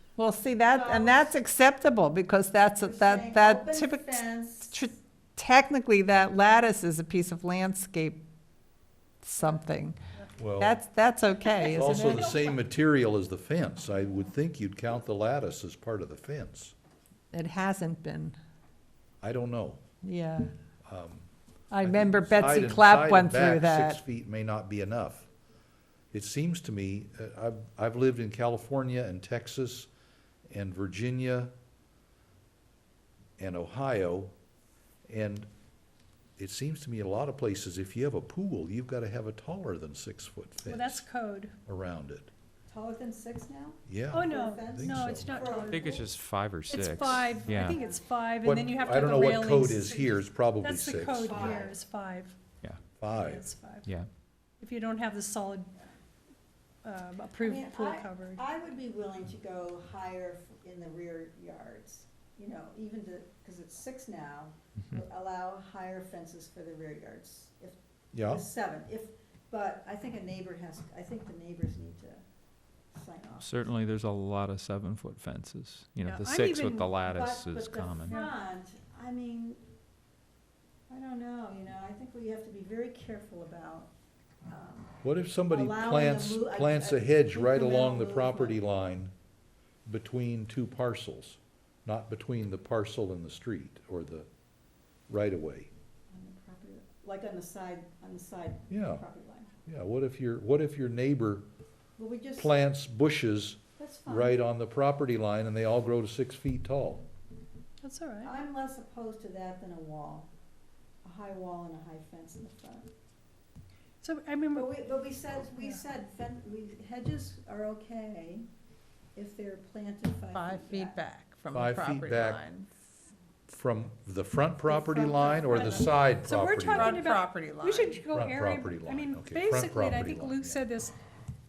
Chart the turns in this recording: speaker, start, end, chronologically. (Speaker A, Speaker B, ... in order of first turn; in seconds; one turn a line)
Speaker A: 0.2-8.2
Speaker B: 0.7-1.4
Speaker B: 2.8-4.8
Speaker A: 9.2-10.0
Speaker C: 9.4-10.3
Speaker D: 10.4-10.8
Speaker A: 10.6-12.3
Speaker C: 11.4-12.6
Speaker D: 11.6-16.7
Speaker A: 17.3-18.4
Speaker D: 19.2-19.8
Speaker A: 20.0-20.5
Speaker D: 20.9-21.3
Speaker A: 21.7-24.0
Speaker D: 21.8-25.3
Speaker D: 26.1-29.9
Speaker D: 30.5-31.5
Speaker D: 33.4-34.3
Speaker D: 35.1-35.5
Speaker D: 36.4-41.0
Speaker C: 40.6-41.5
Speaker D: 41.7-42.3
Speaker B: 42.7-46.0
Speaker D: 43.9-45.5
Speaker C: 44.1-46.1
Speaker E: 45.6-47.8
Speaker C: 46.7-52.4
Speaker B: 47.3-48.0
Speaker D: 48.4-51.6
Speaker B: 51.1-51.8
Speaker D: 53.0-53.5
Speaker C: 53.1-53.9
Speaker C: 54.6-55.7
Speaker C: 56.8-58.4
Speaker B: 57.4-72.2
Speaker D: 68.1-68.4
Speaker B: 72.9-73.5
Speaker E: 73.4-78.2
Speaker C: 76.0-77.0
Speaker B: 77.0-79.6
Speaker C: 78.0-78.3
Speaker B: 80.9-83.9
Speaker B: 84.5-84.9
Speaker D: 85.0-89.1
Speaker B: 85.5-88.6
Speaker D: 89.8-94.3
Speaker D: 95.1-95.7
Speaker B: 96.1-99.5
Speaker D: 98.7-99.0
Speaker D: 99.7-101.5
Speaker B: 102.0-102.5
Speaker D: 102.4-107.0
Speaker B: 103.8-104.4
Speaker C: 107.8-108.3
Speaker B: 108.2-110.3
Speaker B: 111.0-112.9
Speaker C: 114.0-114.7
Speaker B: 114.5-118.5
Speaker B: 119.1-121.0
Speaker A: 120.3-122.7
Speaker D: 121.5-122.4
Speaker D: 123.5-127.0
Speaker C: 124.7-130.9
Speaker A: 126.6-128.0
Speaker D: 128.1-130.7